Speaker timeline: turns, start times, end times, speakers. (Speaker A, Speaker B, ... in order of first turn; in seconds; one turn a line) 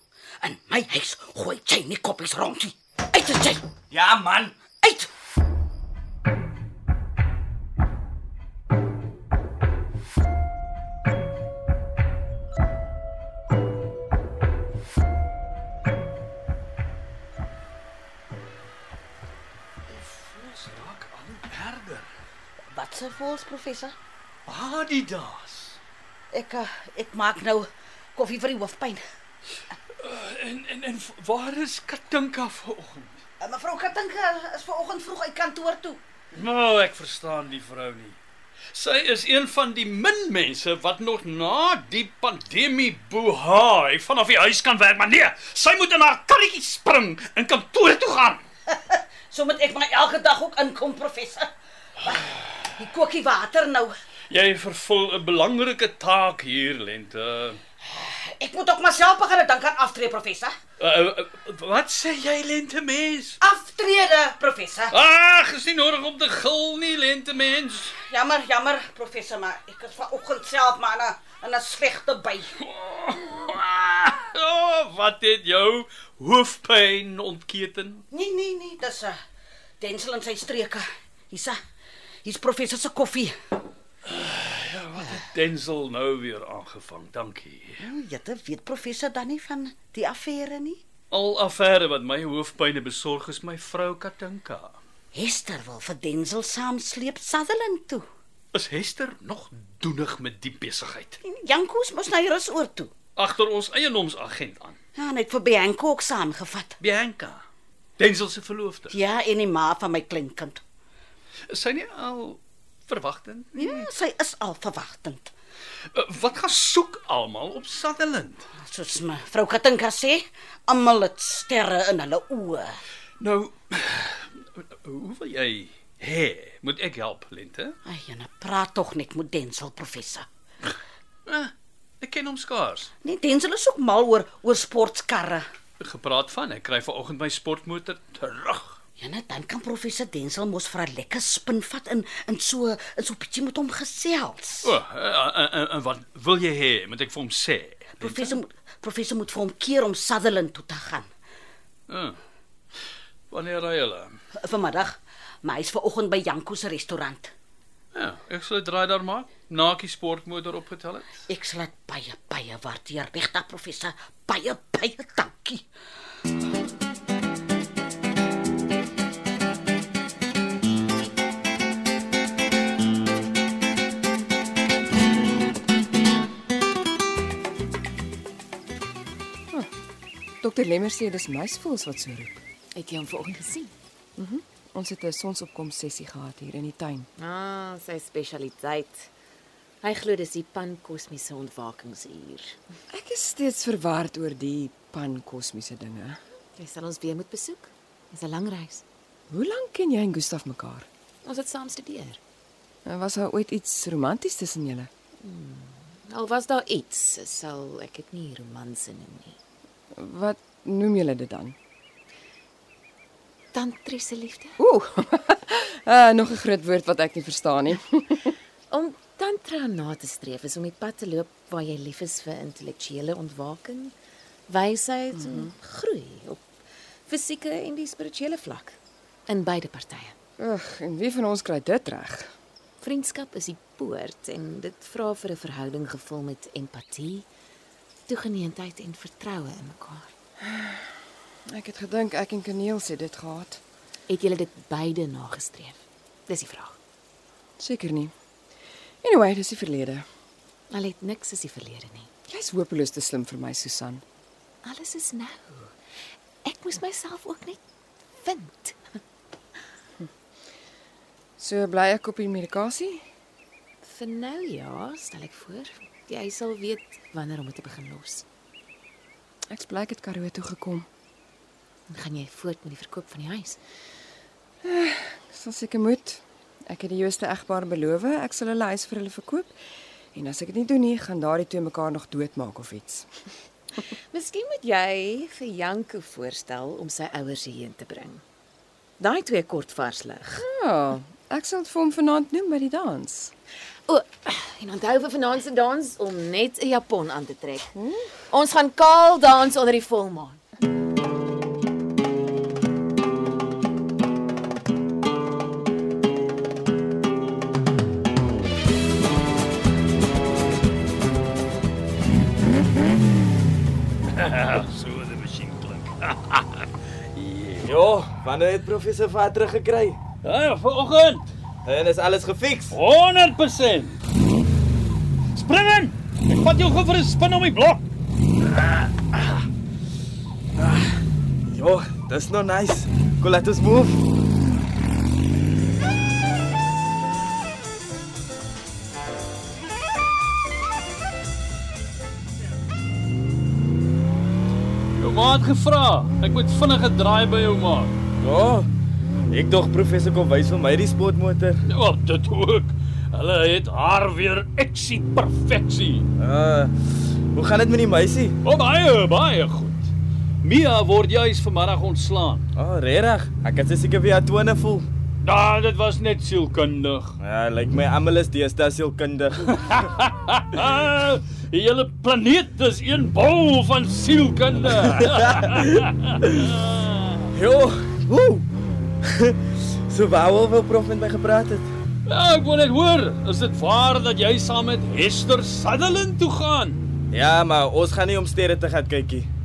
Speaker A: 0.4-3.6
Speaker B: 3.9-4.6
Speaker A: 4.8-5.1
Speaker C: 19.9-22.1
Speaker A: 22.7-23.9
Speaker C: 24.5-25.8
Speaker A: 26.3-29.0
Speaker C: 30.0-33.2
Speaker A: 33.4-36.0
Speaker C: 36.3-38.2
Speaker C: 38.7-48.4
Speaker A: 48.7-51.5
Speaker A: 52.8-54.0
Speaker C: 54.3-57.6
Speaker A: 57.9-60.6
Speaker C: 60.8-63.4
Speaker A: 63.4-64.9
Speaker C: 64.9-68.0
Speaker A: 68.0-72.5
Speaker C: 72.6-78.0
Speaker A: 78.1-79.2
Speaker A: 79.8-81.6
Speaker A: 82.2-83.3
Speaker C: 84.1-87.8
Speaker A: 87.8-90.8
Speaker C: 91.1-94.8
Speaker A: 95.1-98.1
Speaker C: 98.5-101.2
Speaker A: 101.2-102.9
Speaker C: 103.2-104.8
Speaker A: 105.0-106.8
Speaker C: 106.8-107.4
Speaker C: 108.0-109.0
Speaker A: 108.9-110.6
Speaker C: 111.5-113.9
Speaker A: 113.5-115.3
Speaker C: 115.9-118.5
Speaker A: 118.7-122.8
Speaker C: 123.2-127.8
Speaker A: 127.8-130.3
Speaker C: 131.3-132.9
Speaker A: 133.0-135.5
Speaker C: 135.8-138.8
Speaker A: 139.0-144.7
Speaker C: 144.6-148.4
Speaker A: 148.0-151.1
Speaker C: 151.9-152.2
Speaker C: 153.3-154.2
Speaker A: 154.4-157.3
Speaker C: 157.9-161.2
Speaker A: 161.3-165.6
Speaker D: 180.4-182.4
Speaker E: 182.8-183.7
Speaker D: 184.2-187.1
Speaker E: 187.2-189.1
Speaker E: 189.8-192.6
Speaker D: 192.9-196.2
Speaker E: 196.5-198.8
Speaker D: 199.3-200.9
Speaker E: 201.2-202.2
Speaker D: 202.8-204.9
Speaker E: 205.2-209.4
Speaker D: 209.9-211.6
Speaker E: 213.5-214.6
Speaker D: 214.6-218.3
Speaker E: 218.7-223.9
Speaker E: 224.5-226.4
Speaker D: 225.2-225.5
Speaker E: 227.1-230.2
Speaker D: 230.4-232.3
Speaker E: 232.8-237.3
Speaker E: 238.1-240.1
Speaker D: 240.4-240.9
Speaker D: 241.5-243.6
Speaker E: 244.1-246.8
Speaker D: 247.6-248.1
Speaker D: 249.0-250.1
Speaker E: 250.7-252.1
Speaker D: 252.3-254.0
Speaker E: 254.6-255.7
Speaker E: 256.4-257.6
Speaker E: 258.2-259.0
Speaker D: 261.4-263.1
Speaker E: 263.8-268.2
Speaker D: 269.5-270.9
Speaker E: 271.9-273.6
Speaker D: 274.6-279.6
Speaker D: 280.1-283.1
Speaker E: 284.1-288.2
Speaker E: 289.0-290.4
Speaker D: 290.4-293.3
Speaker E: 293.9-297.7
Speaker D: 297.8-298.1
Speaker E: 298.3-300.4
Speaker C: 314.1-317.7
Speaker B: 317.6-320.0
Speaker C: 320.2-321.3
Speaker B: 321.6-322.8
Speaker C: 322.7-324.0
Speaker C: 325.4-327.8
Speaker B: 330.6-330.9
Speaker B: 331.5-334.1
Speaker C: 345.0-348.0
Speaker B: 348.2-348.7
Speaker B: 349.3-351.6
Speaker C: 351.7-356.1
Speaker B: 356.2-356.7
Speaker B: 357.3-358.4
Speaker C: 358.4-359.9
Speaker C: 360.4-362.4
Speaker B: 362.6-364.9
Speaker C: 365.2-367.2
Speaker B: 367.2-369.8
Speaker C: 369.6-377.2
Speaker B: 377.3-378.5
Speaker B: 379.0-381.7
Speaker C: 382.1-386.8
Speaker B: 387.1-389.3